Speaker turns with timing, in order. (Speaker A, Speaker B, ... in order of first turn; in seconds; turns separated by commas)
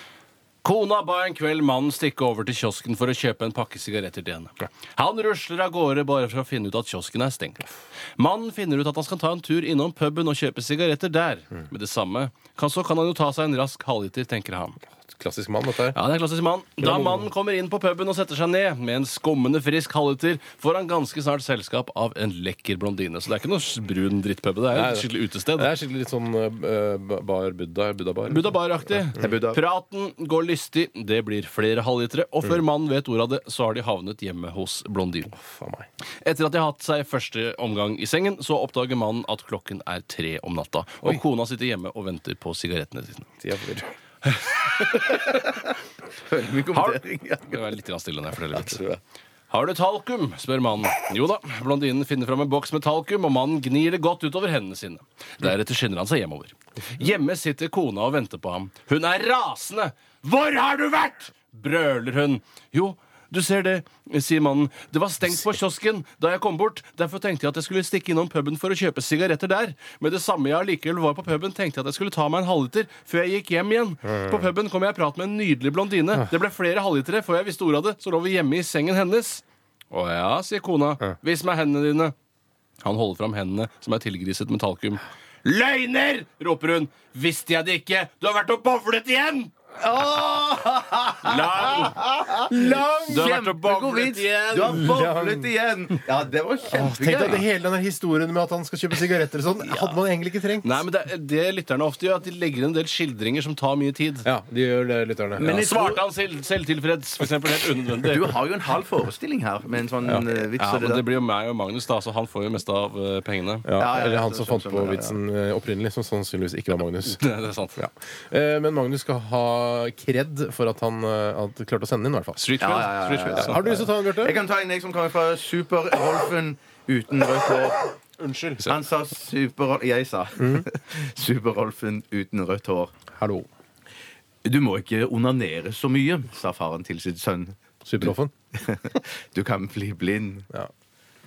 Speaker A: 0.6-14.8, Speaker B: 15.1-16.0, Speaker A: 15.9-25.7, Speaker B: 16.8-17.3, Speaker B: 24.7-28.9, Speaker A: 28.3-35.4, Speaker C: 29.2-29.6, Speaker B: 35.4-35.9, Speaker A: 36.2-43.3, Speaker B: 43.4-43.9, Speaker A: 44.2-45.6, Speaker C: 45.1-45.4, Speaker C: 46.2-47.7, Speaker A: 46.7-48.8, Speaker C: 48.5-49.0, Speaker A: 49.5-82.1, Speaker B: 74.1-74.5, Speaker A: 82.8-89.5, Speaker C: 89.8-97.4, Speaker A: 91.2-92.0, Speaker B: 92.5-93.3, Speaker A: 93.1-94.8, Speaker B: 94.6-95.5, Speaker B: 96.7-100.8, Speaker A: 100.6-104.3, Speaker B: 104.2-105.5, Speaker A: 105.4-108.4, Speaker C: 105.4-106.0, Speaker C: 108.1-111.0, Speaker A: 110.6-113.7, Speaker B: 113.7-117.2, Speaker C: 113.8-115.2, Speaker A: 117.0-117.8, Speaker B: 117.8-122.5, Speaker A: 122.4-123.6, Speaker C: 122.6-127.8, Speaker B: 123.2-124.4, Speaker B: 128.2-128.7, Speaker C: 128.6-132.9, Speaker B: 130.4-130.6, Speaker B: 133.1-133.5, Speaker C: 134.4-140.5, Speaker B: 137.8-138.3